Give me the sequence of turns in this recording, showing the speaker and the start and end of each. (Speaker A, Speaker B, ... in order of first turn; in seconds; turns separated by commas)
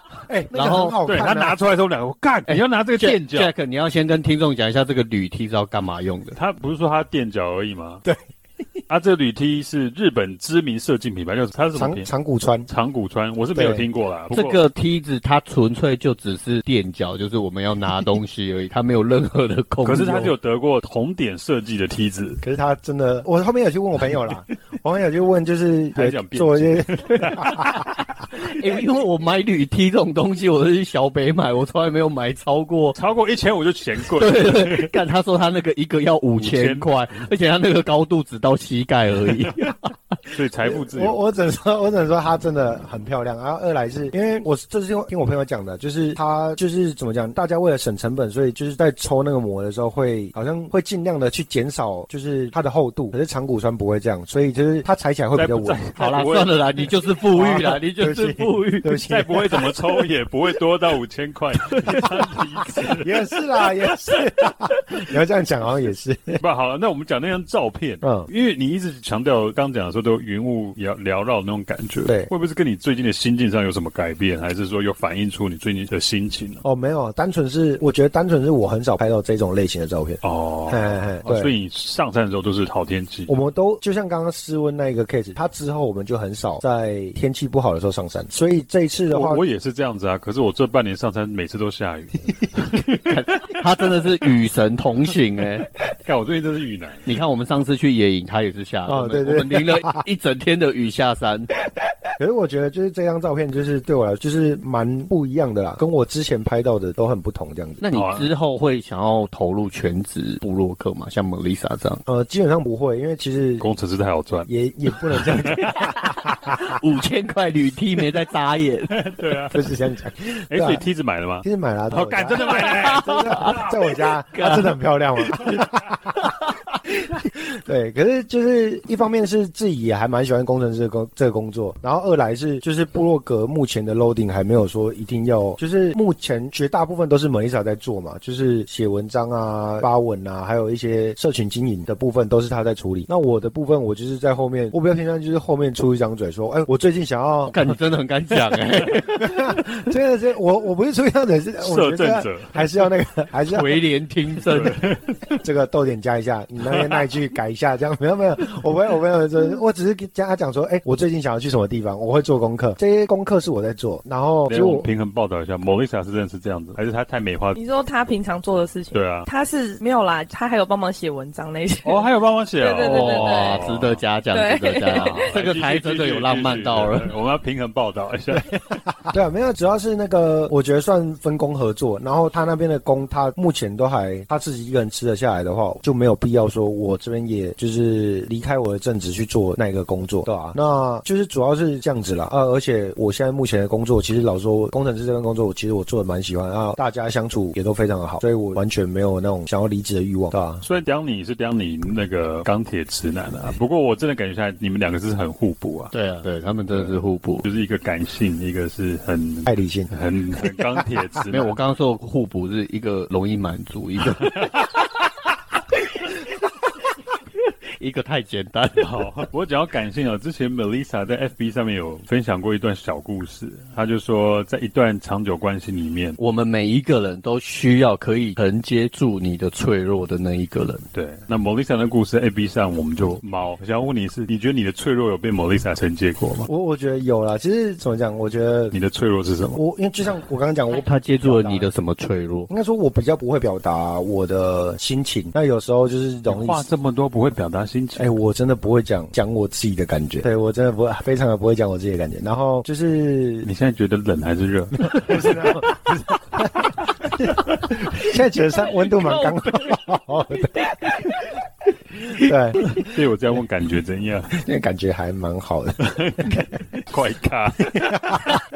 Speaker A: 0.3-1.6, Speaker B: 0.5-0.9, Speaker C: 1.1-3.5, Speaker B: 2.5-6.4, Speaker C: 6.4-8.0, Speaker C: 8.9-12.1, Speaker A: 11.7-12.7, Speaker C: 12.7-14.6, Speaker A: 13.6-13.8, Speaker B: 14.3-20.3, Speaker C: 19.8-22.4, Speaker A: 22.4-27.9, Speaker C: 25.9-27.7, Speaker B: 27.7-33.0, Speaker C: 33.0-34.9, Speaker B: 34.1-39.9, Speaker C: 36.4-37.2, Speaker C: 40.3-41.2, Speaker A: 40.6-55.8, Speaker C: 55.4-56.5, Speaker B: 56.0-59.0, Speaker A: 57.3-59.7, Speaker C: 59.0-63.3, Speaker A: 61.7-66.4, Speaker C: 66.4-76.6, Speaker A: 68.0-68.3, Speaker A: 76.6-81.5, Speaker C: 80.2-83.3, Speaker A: 83.3-89.4, Speaker C: 89.1-93.0, Speaker B: 92.9-95.7, Speaker C: 96.0-97.0, Speaker B: 97.1-101.5, Speaker A: 98.9-100.0, Speaker A: 102.2-107.8, Speaker B: 107.8-112.0, Speaker C: 107.9-108.3, Speaker A: 112.1-113.7, Speaker C: 113.6-114.5, Speaker A: 114.5-116.8, Speaker C: 115.2-115.7, Speaker B: 115.6-119.1, Speaker C: 118.9-119.6, Speaker A: 119.5-120.8, Speaker C: 120.5-123.7, Speaker A: 121.4-147.8, Speaker B: 122.4-123.7, Speaker B: 124.3-124.7, Speaker B: 147.4-149.7, Speaker A: 149.2-153.8, Speaker C: 151.6-152.7, Speaker B: 153.5-154.8, Speaker C: 154.4-155.0, Speaker A: 155.4-164.9, Speaker C: 164.5-167.6, Speaker D: 167.6-172.1, Speaker C: 168.9-169.3, Speaker C: 171.8-174.0, Speaker D: 172.6-173.6, Speaker B: 172.8-177.1, Speaker D: 174.3-175.3, Speaker C: 174.9-178.6, Speaker A: 179.1-200.6, Speaker C: 200.6-205.9, Speaker B: 205.9-207.4, Speaker C: 206.7-211.5, Speaker A: 209.4-209.9, Speaker B: 211.3-214.6, Speaker B: 217.8-219.1, Speaker C: 218.8-226.2, Speaker B: 226.2-230.8, Speaker C: 230.9-236.5, Speaker A: 236.5-238.7, Speaker C: 238.7-239.6, Speaker A: 239.5-241.7, Speaker B: 240.7-242.5, Speaker A: 242.5-246.7, Speaker C: 246.3-248.1, Speaker A: 247.9-253.5, Speaker C: 253.4-255.7, Speaker A: 254.8-261.4, Speaker A: 262.1-262.8, Speaker C: 262.6-264.3, Speaker A: 264.3-266.5, Speaker C: 265.8-268.4, Speaker A: 267.7-268.4